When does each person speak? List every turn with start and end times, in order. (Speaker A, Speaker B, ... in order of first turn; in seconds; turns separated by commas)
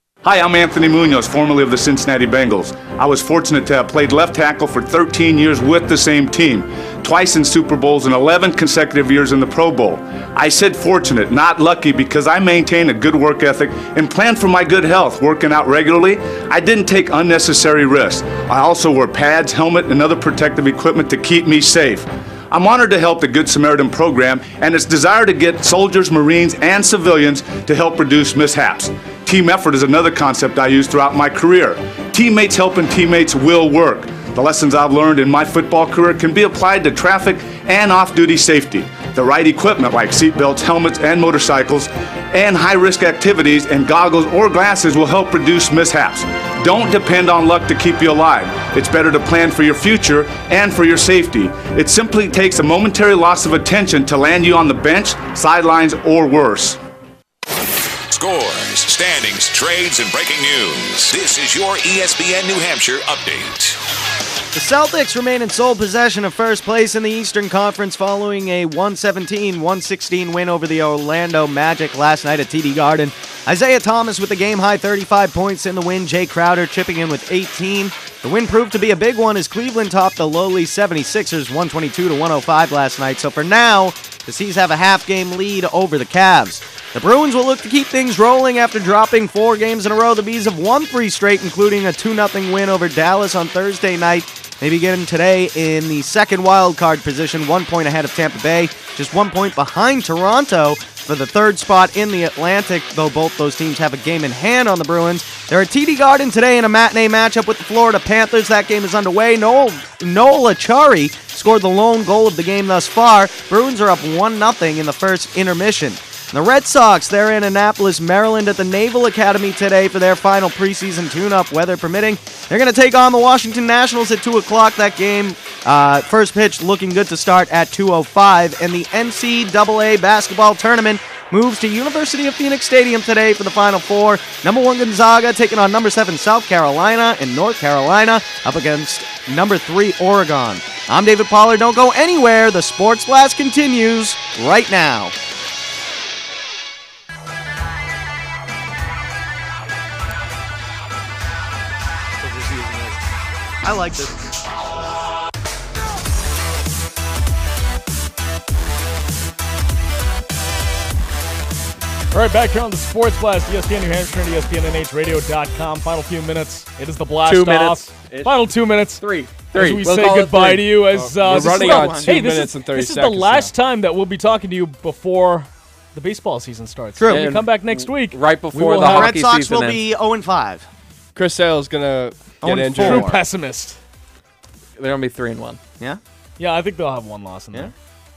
Speaker A: 0.2-56.8, Speaker B: 58.1-63.8, Speaker C: 64.5-145.1, Speaker C: 152.2-153.0, Speaker C: 153.6-154.2, Speaker D: 162.1-179.2, Speaker E: 167.2-168.4, Speaker E: 169.0-170.8, Speaker F: 170.9-173.5, Speaker C: 171.3-172.2, Speaker C: 177.0-177.3, Speaker E: 177.1-179.8, Speaker C: 178.8-180.7, Speaker F: 181.2-183.2, Speaker C: 182.4-183.2, Speaker D: 182.5-183.8, Speaker E: 184.8-185.6, Speaker D: 186.4-187.7